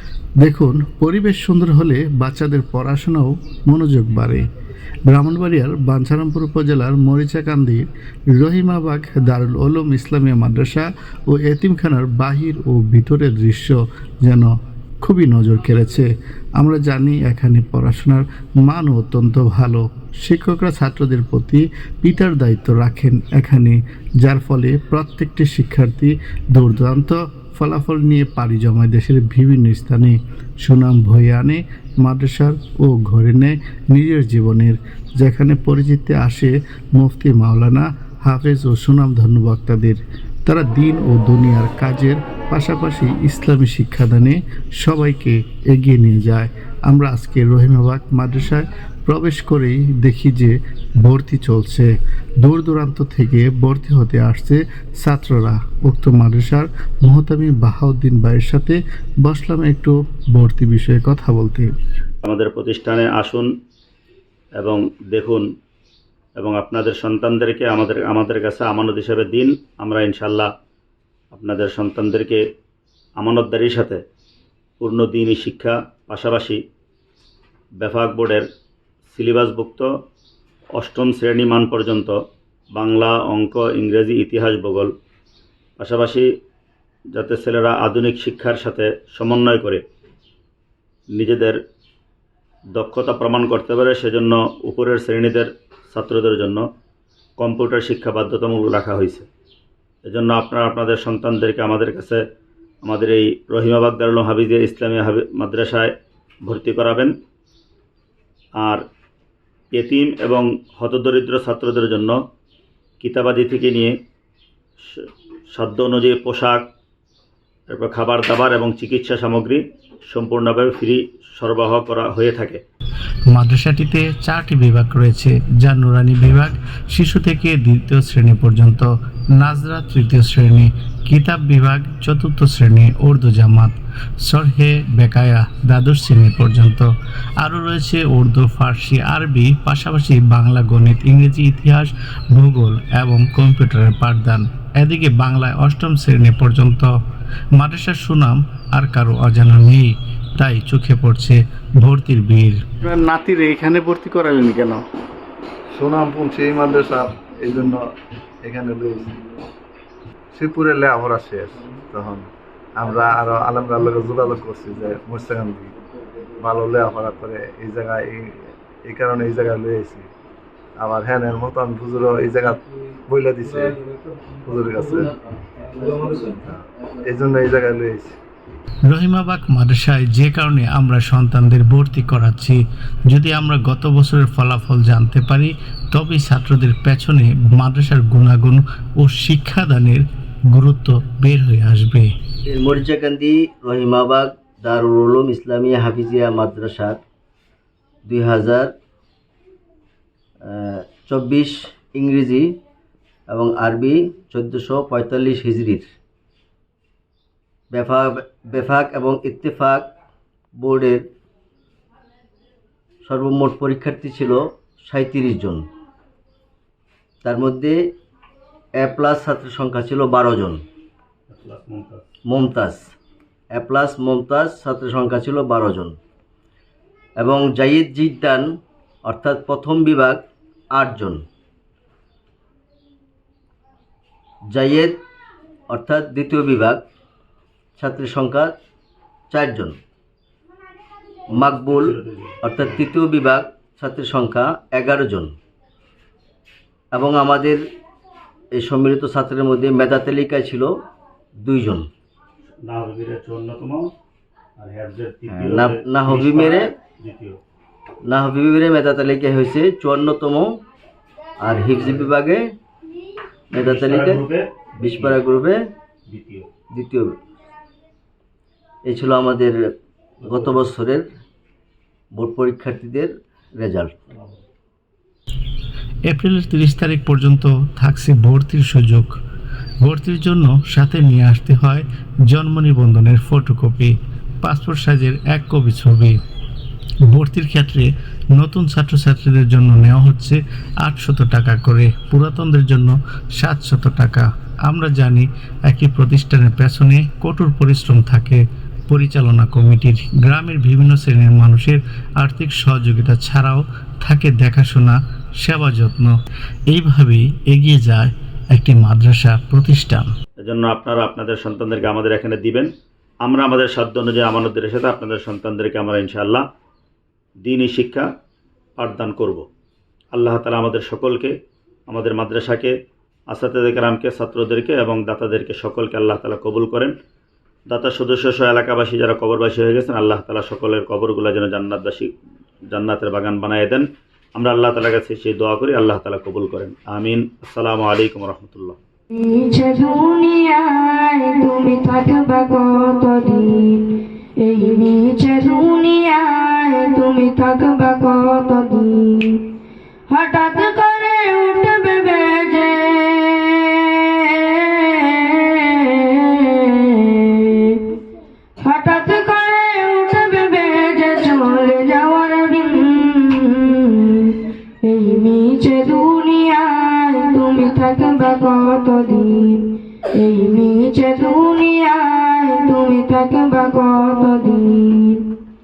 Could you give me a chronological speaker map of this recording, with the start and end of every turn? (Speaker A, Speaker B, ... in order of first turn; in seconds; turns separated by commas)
Speaker A: 0.4-4.5, Speaker A: 5.1-14.5, Speaker A: 15.0-51.9, Speaker A: 52.4-61.7, Speaker B: 62.2-63.5, Speaker B: 64.6-65.4, Speaker B: 66.4-70.5, Speaker B: 71.3-72.4, Speaker B: 73.2-74.0, Speaker B: 74.8-76.6, Speaker B: 77.8-78.5, Speaker B: 79.1-79.9, Speaker B: 80.8-82.2, Speaker B: 82.7-84.9, Speaker B: 85.8-86.3, Speaker B: 87.1-89.8, Speaker B: 91.1-91.6, Speaker B: 92.8-96.6, Speaker B: 97.4-99.3, Speaker B: 100.1-102.2, Speaker B: 102.8-105.9, Speaker B: 106.4-107.1, Speaker B: 109.7-112.2, Speaker B: 113.0-114.0, Speaker B: 114.9-116.6, Speaker B: 117.7-122.6, Speaker A: 123.3-146.9, Speaker A: 147.5-154.8, Speaker C: 155.7-157.9, Speaker C: 158.4-159.2, Speaker C: 160.3-165.7, Speaker C: 166.4-170.1, Speaker C: 170.8-173.8, Speaker C: 174.4-175.1, Speaker C: 175.9-178.2, Speaker A: 178.9-192.1, Speaker D: 192.5-197.0, Speaker D: 198.0-198.7, Speaker D: 200.4-202.6, Speaker D: 203.3-205.9, Speaker D: 207.7-209.9, Speaker D: 210.6-211.1, Speaker D: 213.0-215.7, Speaker D: 217.2-217.9, Speaker D: 218.8-220.6, Speaker B: 221.3-222.0, Speaker D: 222.2-222.9, Speaker D: 223.5-225.9, Speaker D: 227.2-231.2, Speaker D: 234.5-235.0, Speaker D: 235.7-236.8, Speaker D: 237.8-238.5, Speaker D: 239.3-239.8, Speaker B: 241.3-242.8, Speaker D: 241.3-245.3, Speaker D: 246.9-247.6, Speaker D: 248.5-250.7, Speaker D: 251.4-251.9, Speaker B: 252.6-253.9, Speaker B: 254.6-257.4, Speaker D: 255.3-256.7, Speaker D: 258.0-260.6, Speaker D: 261.4-262.5, Speaker B: 261.7-262.1, Speaker D: 263.5-264.2, Speaker B: 263.5-265.2, Speaker D: 264.8-265.7, Speaker B: 266.1-266.5, Speaker D: 266.7-267.2, Speaker D: 268.8-269.6, Speaker D: 270.2-271.1, Speaker D: 272.1-273.9, Speaker B: 274.1-274.4, Speaker A: 276.1-279.1, Speaker A: 279.8-286.2, Speaker A: 287.0-306.1, Speaker A: 306.7-310.1, Speaker B: 310.4-312.7, Speaker B: 313.2-316.4, Speaker B: 317.4-318.1, Speaker B: 318.8-319.4, Speaker B: 320.1-321.3, Speaker B: 321.9-322.7, Speaker B: 323.3-326.9, Speaker B: 327.7-332.1, Speaker B: 332.7-338.8, Speaker E: 339.1-349.5, Speaker E: 350.1-357.9, Speaker E: 358.6-375.3